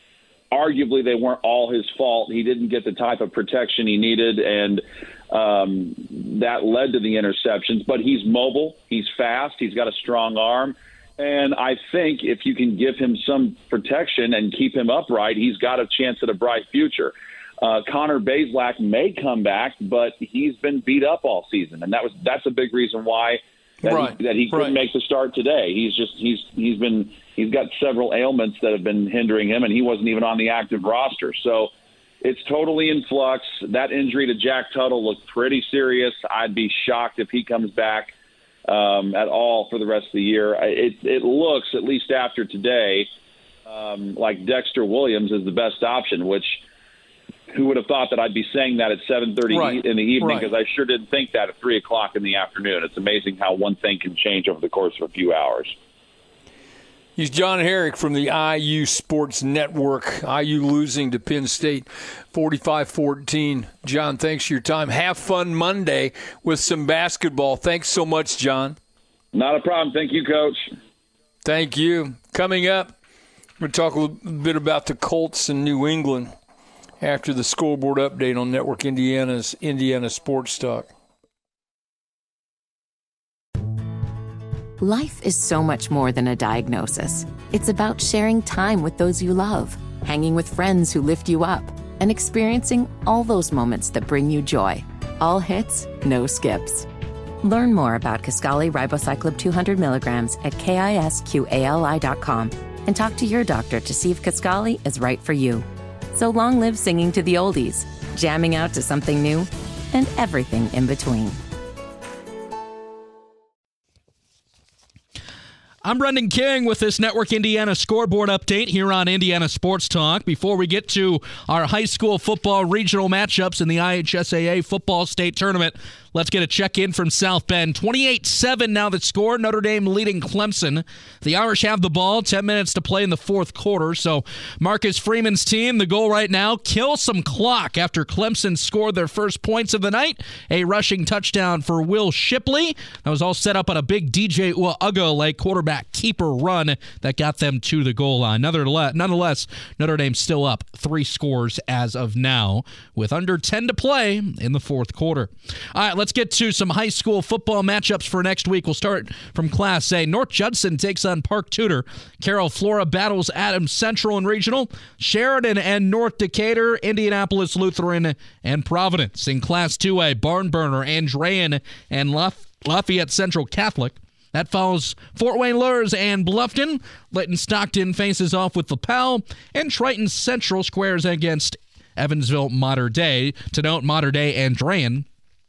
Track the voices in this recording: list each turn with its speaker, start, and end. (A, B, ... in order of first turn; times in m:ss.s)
0:00.5-0:31.7 A
0:23.8-0:24.8 B
0:32.2-0:38.1 A
0:38.7-0:43.1 A
0:43.7-0:46.6 A
0:47.5-0:55.8 A
0:49.5-0:50.5 B
0:57.2-1:08.8 B
1:09.3-1:10.8 A
1:11.4-1:12.9 B
1:13.6-1:16.3 B
1:17.0-1:20.9 B
1:24.8-1:36.9 C
1:37.4-1:51.4 C
1:55.8-3:05.1 D